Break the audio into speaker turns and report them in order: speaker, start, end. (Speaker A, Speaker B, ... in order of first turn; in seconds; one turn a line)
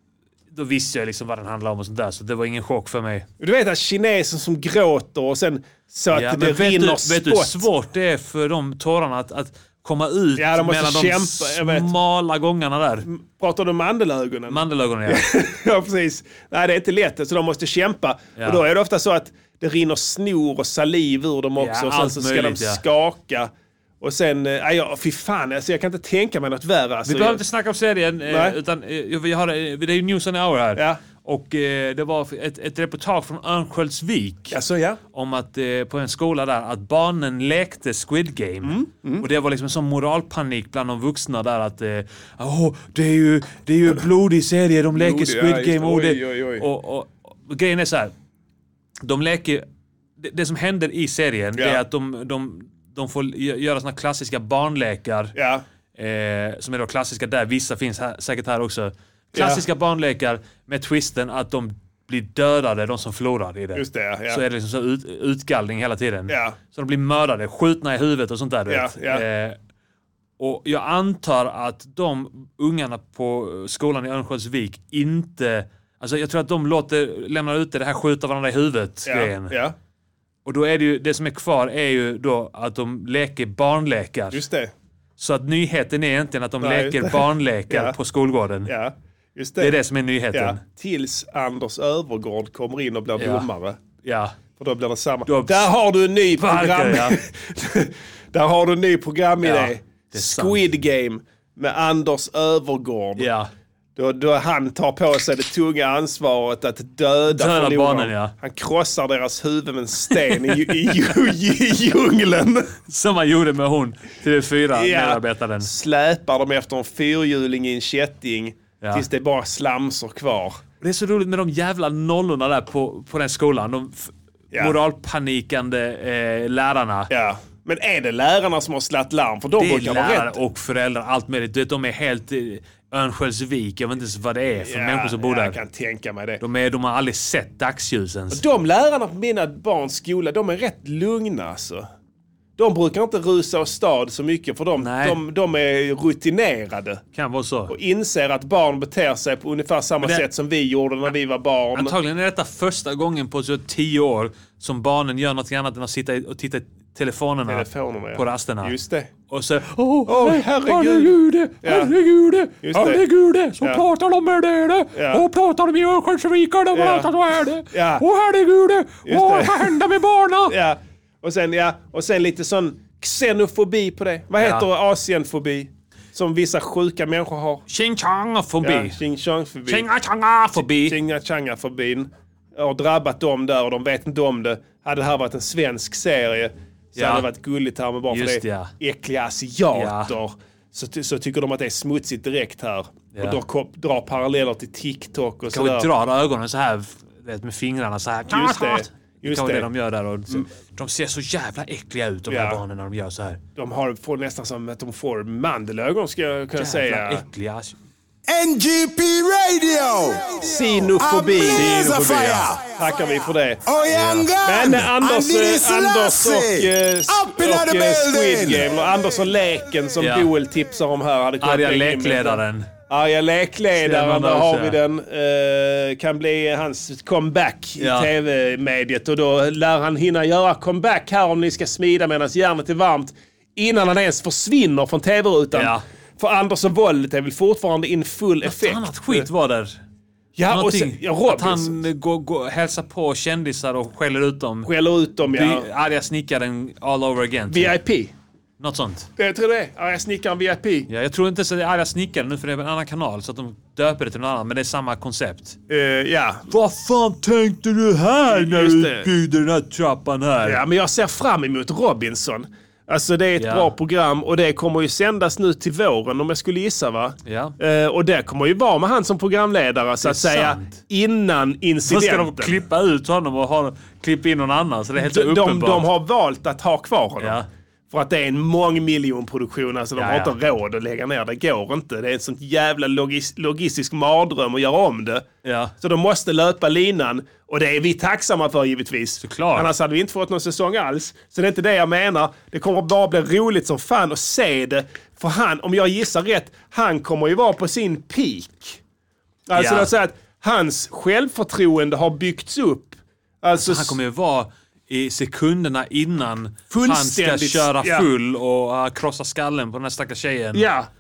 Speaker A: 0.5-3.3
Speaker B: 3.4-7.7
Speaker A: 6.1-13.1
Speaker B: 10.4-11.9
Speaker B: 13.1-23.5
Speaker A: 14.5-15.3
Speaker A: 18.4-18.6
Speaker A: 21.6-22.8
Speaker B: 24.0-27.4
Speaker A: 27.1-34.6
Speaker B: 28.3-28.6
Speaker B: 30.8-31.0
Speaker B: 34.5-35.0
Speaker A: 35.1-48.1
Speaker B: 38.6-39.3
Speaker B: 45.0-46.7
Speaker A: 49.0-49.7
Speaker A: 50.2-55.4
Speaker B: 51.6-51.8
Speaker B: 55.4-55.6
Speaker A: 56.0-69.6
Speaker B: 59.3-59.6
Speaker B: 63.7-64.4
Speaker B: 66.3-66.6
Speaker B: 68.7-69.2
Speaker A: 70.4-79.6
Speaker B: 79.1-79.8
Speaker A: 80.5-84.4
Speaker B: 84.3-84.7
Speaker A: 85.2-88.7
Speaker B: 86.6-88.0
Speaker B: 88.7-89.8
Speaker A: 89.6-90.6
Speaker B: 90.3-93.8
Speaker A: 93.2-93.5
Speaker A: 94.0-94.4
Speaker B: 94.6-103.3
Speaker A: 95.3-95.7
Speaker A: 96.4-97.2
Speaker A: 99.4-100.6
Speaker A: 103.2-103.5
Speaker B: 104.0-112.8
Speaker A: 107.3-108.3
Speaker A: 112.9-115.7
Speaker B: 114.7-120.6
Speaker A: 118.8-119.1
Speaker A: 120.8-127.1
Speaker B: 127.1-130.4
Speaker A: 129.6-135.6
Speaker B: 134.6-136.4
Speaker A: 136.4-138.4
Speaker B: 138.3-141.9
Speaker B: 142.6-147.0
Speaker A: 144.8-145.2
Speaker A: 147.2-147.7
Speaker B: 147.7-151.9
Speaker A: 151.7-158.7
Speaker B: 157.5-159.1
Speaker A: 159.3-170.5
Speaker B: 160.1-161.9
Speaker B: 162.6-163.1
Speaker B: 164.9-165.2
Speaker B: 166.7-167.1
Speaker B: 167.7-168.1
Speaker B: 169.1-169.8
Speaker B: 170.5-177.6
Speaker A: 174.4-174.7
Speaker A: 177.7-179.0
Speaker B: 178.6-179.9
Speaker A: 179.7-181.0
Speaker B: 180.6-195.9
Speaker A: 186.9-187.3
Speaker A: 188.1-188.7
Speaker A: 189.7-190.1
Speaker A: 193.1-193.4
Speaker A: 195.5-203.4
Speaker B: 198.3-199.7
Speaker B: 202.3-202.6
Speaker B: 203.6-207.2
Speaker A: 206.6-207.8
Speaker C: 208.3-212.8
Speaker B: 210.4-212.1
Speaker A: 211.5-212.5
Speaker B: 212.7-213.6
Speaker C: 213.7-218.7
Speaker A: 213.9-214.3
Speaker B: 214.4-239.3
Speaker A: 220.0-220.3
Speaker A: 221.4-222.7
Speaker A: 223.8-224.8
Speaker A: 227.8-228.1
Speaker A: 235.5-235.8
Speaker A: 238.4-239.8
Speaker B: 240.4-241.8
Speaker A: 240.5-244.7
Speaker B: 244.7-245.7
Speaker A: 245.2-247.8
Speaker B: 247.5-248.1
Speaker A: 248.6-249.1
Speaker B: 249.2-250.9
Speaker A: 250.9-255.6
Speaker B: 255.7-256.5
Speaker A: 256.5-260.6
Speaker B: 258.3-259.1
Speaker B: 260.4-272.6
Speaker A: 263.4-263.7
Speaker A: 267.2-267.6
Speaker A: 270.0-270.8
Speaker A: 271.9-275.9
Speaker B: 274.9-285.3
Speaker A: 277.2-277.5
Speaker A: 280.0-280.4
Speaker A: 285.4-285.7
Speaker B: 285.8-298.8
Speaker A: 289.2-289.7
Speaker B: 299.5-304.0
Speaker A: 299.6-299.9
Speaker A: 303.6-310.7
Speaker B: 306.7-308.1
Speaker B: 310.5-310.9